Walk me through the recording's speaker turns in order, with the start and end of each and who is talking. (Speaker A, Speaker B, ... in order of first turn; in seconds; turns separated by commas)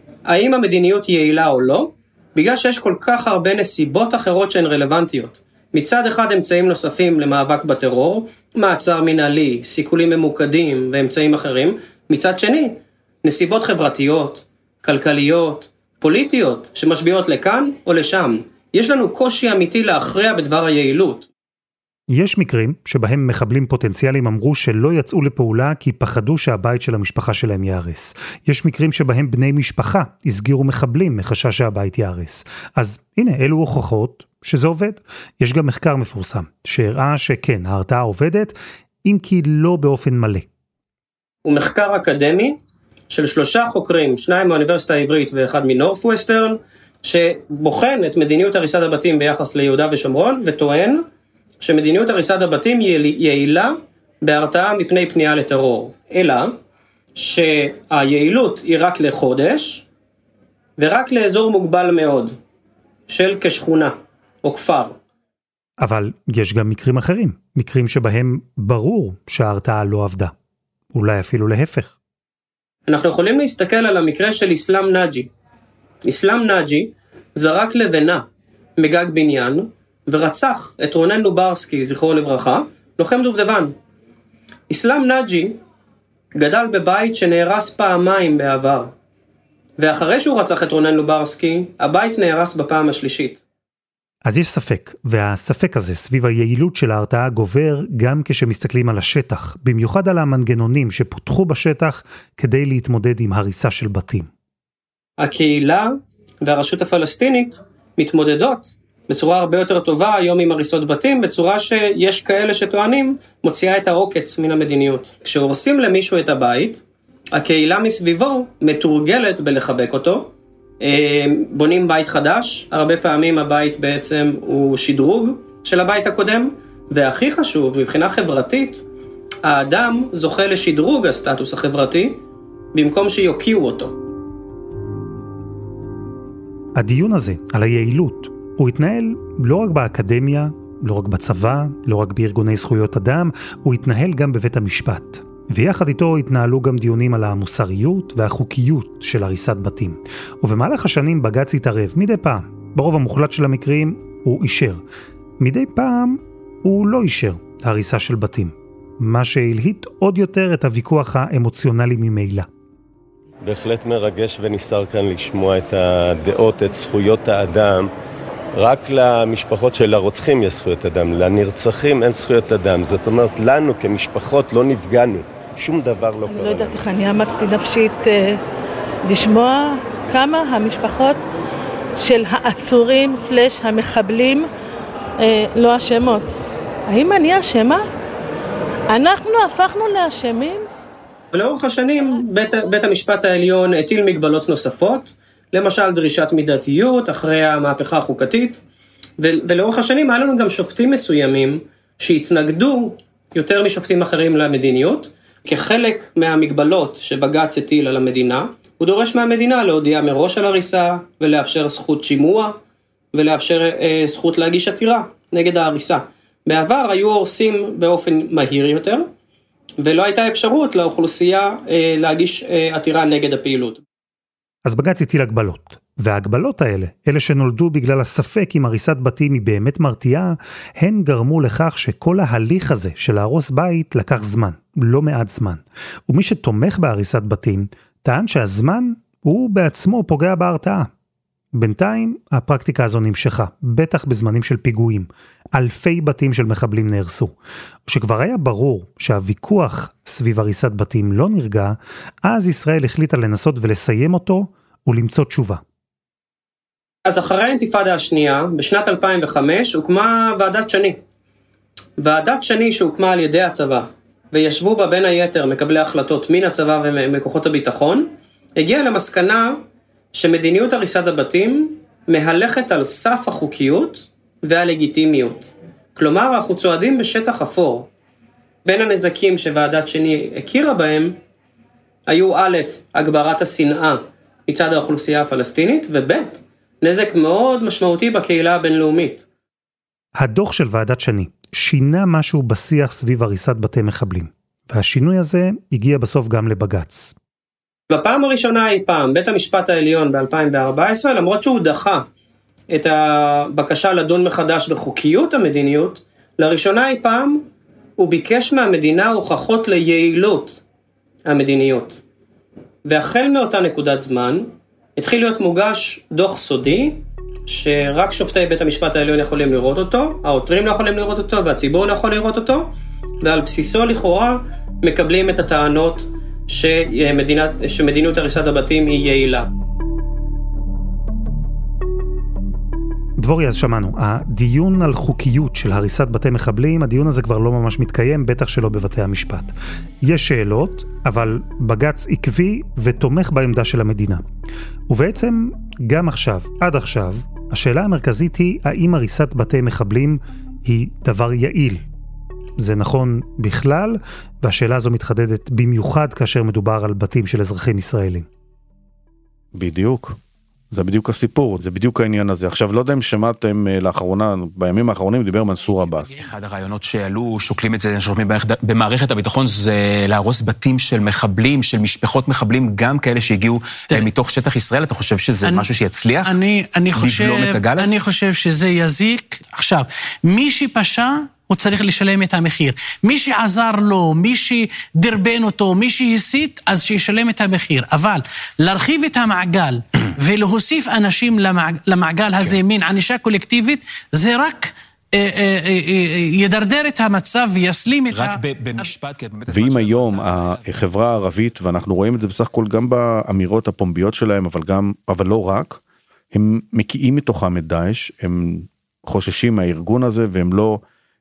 Speaker A: 0.3-21.3, Speaker B: 22.1-40.5, Speaker A: 41.5-42.6, Speaker A: 43.1-51.0, Speaker A: 51.6-56.5, Speaker A: 57.2-59.9, Speaker A: 60.8-62.4, Speaker A: 63.1-65.0, Speaker B: 65.8-70.3, Speaker B: 70.9-72.0, Speaker A: 72.9-75.3, Speaker A: 76.0-78.2, Speaker A: 78.8-83.7, Speaker A: 84.7-85.6, Speaker A: 86.3-88.9, Speaker A: 89.8-93.4, Speaker B: 94.2-104.3, Speaker A: 105.2-116.8, Speaker A: 117.3-128.8, Speaker A: 129.4-132.2, Speaker A: 132.7-133.9, Speaker B: 136.8-154.8, Speaker B: 155.4-162.5, Speaker C: 163.4-167.9, Speaker C: 168.6-176.9, Speaker D: 176.3-178.4, Speaker D: 179.1-181.2, Speaker D: 182.0-184.5, Speaker D: 185.2-186.3, Speaker D: 186.9-187.8, Speaker D: 188.9-190.6, Speaker A: 191.3-198.6, Speaker A: 199.2-212.6, Speaker A: 213.1-219.1, Speaker A: 219.8-223.8, Speaker B: 224.7-240.9, Speaker B: 241.5-255.6, Speaker A: 257.1-261.0, Speaker A: 262.0-269.6, Speaker A: 270.1-277.9, Speaker A: 278.6-281.2, Speaker A: 282.1-289.3, Speaker B: 290.2-297.2, Speaker A: 297.9-302.1, Speaker A: 302.7-307.4, Speaker A: 308.0-310.6, Speaker A: 311.3-312.0, Speaker A: 312.9-322.7, Speaker A: 323.2-329.5, Speaker B: 333.2-344.2, Speaker B: 344.9-351.9, Speaker B: 352.6-358.3, Speaker E: 359.5-360.2, Speaker E: 360.7-366.2, Speaker F: 366.1-376.4, Speaker G: 376.2-398.9, Speaker F: 376.9-377.9, Speaker F: 398.1-400.8, Speaker E: 399.5-405.8, Speaker E: 406.3-410.8